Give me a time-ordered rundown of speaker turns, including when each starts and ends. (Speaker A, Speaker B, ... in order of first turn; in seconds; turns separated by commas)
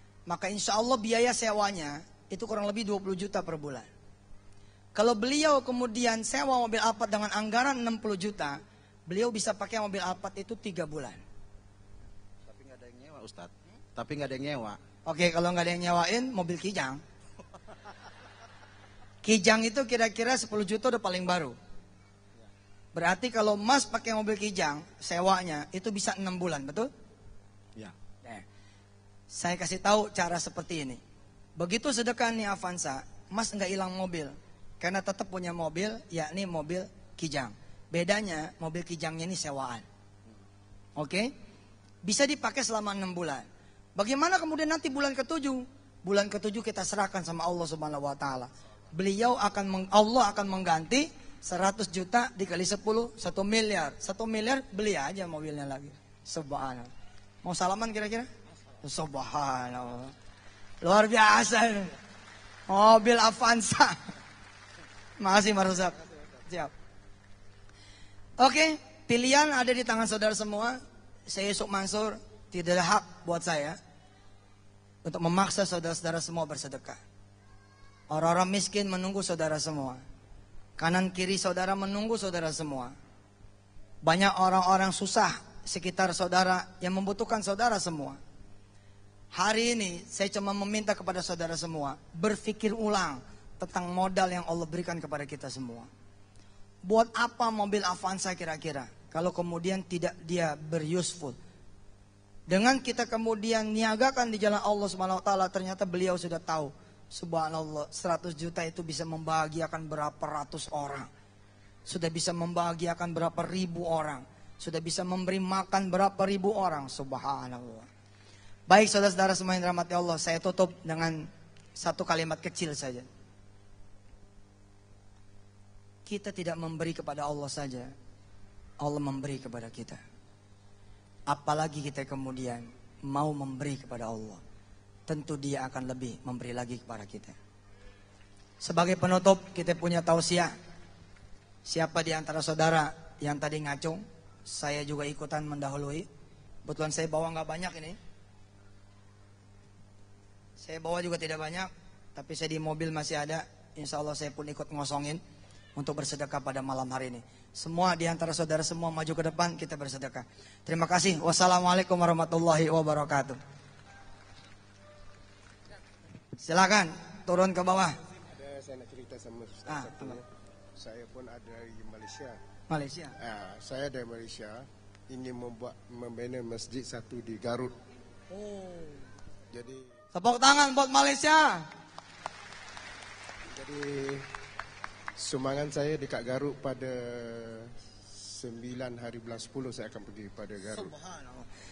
Speaker A: 0.3-3.9, Speaker A: 5.0-11.2, Speaker B: 12.4-14.8, Speaker A: 15.1-17.0, Speaker A: 19.2-21.6, Speaker A: 22.9-26.9, Speaker A: 29.3-31.0, Speaker A: 31.6-39.9, Speaker A: 41.0-41.3, Speaker A: 42.0-56.9, Speaker A: 57.4-58.3, Speaker A: 58.8-60.1, Speaker A: 60.8-62.0, Speaker A: 62.7-64.0, Speaker A: 65.2-66.7, Speaker A: 68.4-73.8, Speaker A: 75.0-77.0, Speaker A: 78.1-80.0, Speaker A: 80.8-82.9, Speaker A: 84.0-88.2, Speaker A: 89.3-95.9, Speaker A: 96.8-101.4, Speaker A: 102.5-111.1, Speaker A: 111.9-117.9, Speaker A: 118.7-123.1, Speaker A: 126.1-127.9, Speaker A: 128.8-130.0, Speaker A: 131.3-134.4, Speaker A: 135.1-137.3, Speaker A: 138.6-140.5, Speaker A: 141.7-146.1, Speaker A: 146.7-148.0, Speaker A: 150.6-155.2, Speaker A: 155.8-163.4, Speaker A: 166.4-168.0, Speaker C: 168.3-170.3, Speaker A: 169.7-170.2, Speaker C: 170.8-172.4, Speaker A: 172.7-173.1, Speaker C: 173.2-177.7, Speaker A: 178.3-178.9, Speaker C: 179.5-179.9, Speaker A: 180.2-181.6, Speaker C: 183.5-184.2, Speaker C: 185.2-190.9, Speaker A: 190.8-191.4